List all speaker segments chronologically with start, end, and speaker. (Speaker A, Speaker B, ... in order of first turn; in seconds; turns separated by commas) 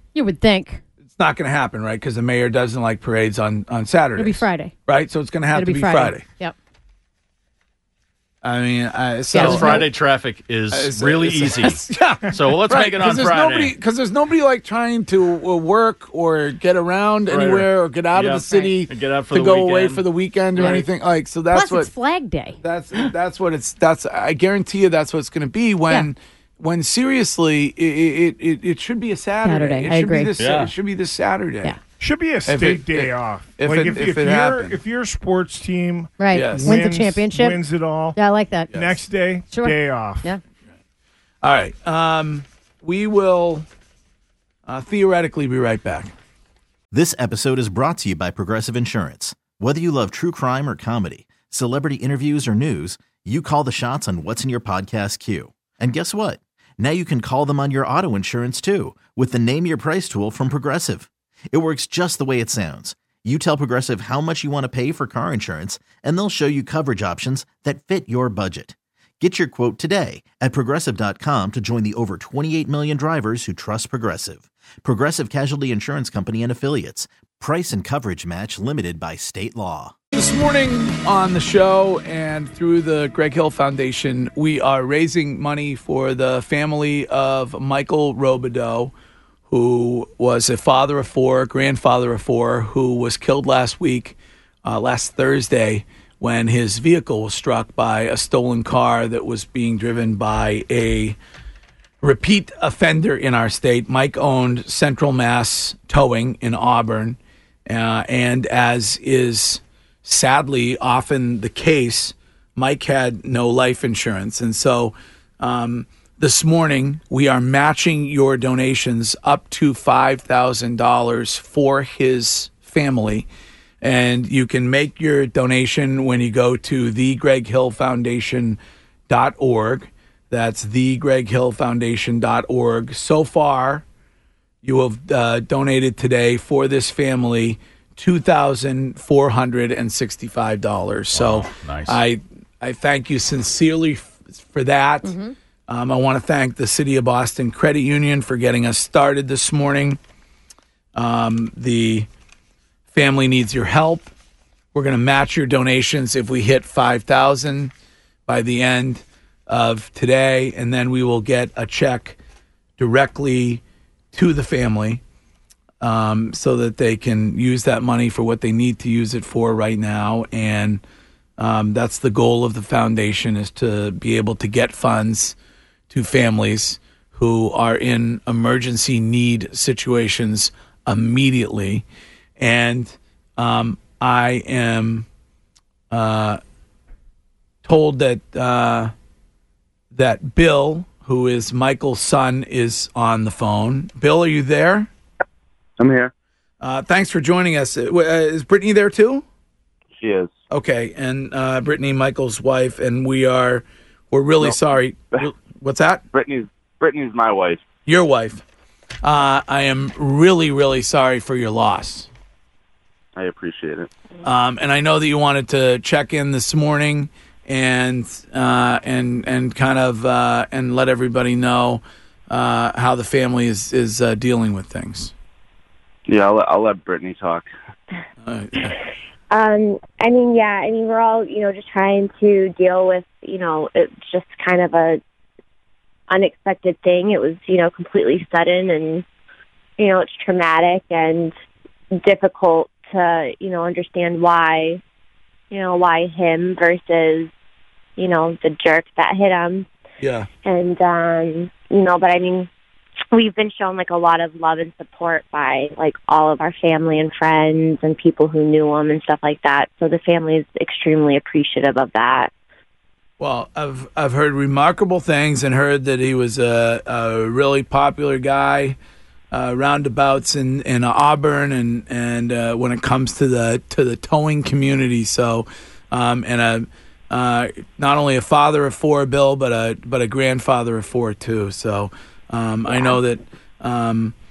Speaker A: 0.1-0.8, Speaker B: 1.1-6.2, Speaker A: 4.2-4.7, Speaker A: 5.5-6.5, Speaker B: 8.4-9.9, Speaker A: 9.3-9.9, Speaker C: 9.3-13.7, Speaker B: 10.7-21.9, Speaker C: 17.3-20.0, Speaker A: 20.6-20.8, Speaker A: 21.5-22.6, Speaker B: 22.6-31.7, Speaker A: 29.4-30.3, Speaker C: 30.4-30.7, Speaker D: 32.0-38.2, Speaker B: 32.5-34.8, Speaker A: 36.2-37.6, Speaker B: 36.3-36.7, Speaker A: 38.1-38.8, Speaker D: 38.7-40.3, Speaker A: 39.5-40.4, Speaker B: 41.4-43.6, Speaker B: 44.6-46.1, Speaker E: 46.9-79.9, Speaker B: 80.1-88.9, Speaker B: 89.5-101.2, Speaker B: 102.0-123.3, Speaker B: 123.8-133.8, Speaker B: 134.6-145.1, Speaker C: 141.1-142.0, Speaker A: 145.0-145.3, Speaker B: 145.7-150.0, Speaker B: 150.9-152.1, Speaker B: 152.9-154.1, Speaker B: 154.7-157.7, Speaker B: 158.3-162.2, Speaker B: 162.8-163.6, Speaker B: 164.1-165.0, Speaker B: 165.8-170.8, Speaker B: 171.4-175.3, Speaker B: 175.9-181.8, Speaker B: 182.4-185.1, Speaker B: 185.9-186.4, Speaker B: 187.6-188.9, Speaker B: 189.9-194.9, Speaker F: 195.8-196.1, Speaker B: 196.6-199.2, Speaker F: 200.0-200.3, Speaker B: 200.5-206.0, Speaker F: 206.1-207.6, Speaker B: 207.8-208.4, Speaker B: 209.0-212.1, Speaker B: 214.2-225.1, Speaker F: 226.1-227.4, Speaker B: 228.2-228.8, Speaker G: 229.3-235.0, Speaker G: 236.1-239.0, Speaker G: 239.8-241.3, Speaker G: 242.0-244.8, Speaker G: 245.5-247.3, Speaker G: 248.0-249.7, Speaker B: 250.0-250.3, Speaker G: 250.4-252.5, Speaker G: 253.1-262.3, Speaker B: 263.2-268.8, Speaker B: 269.3-284.1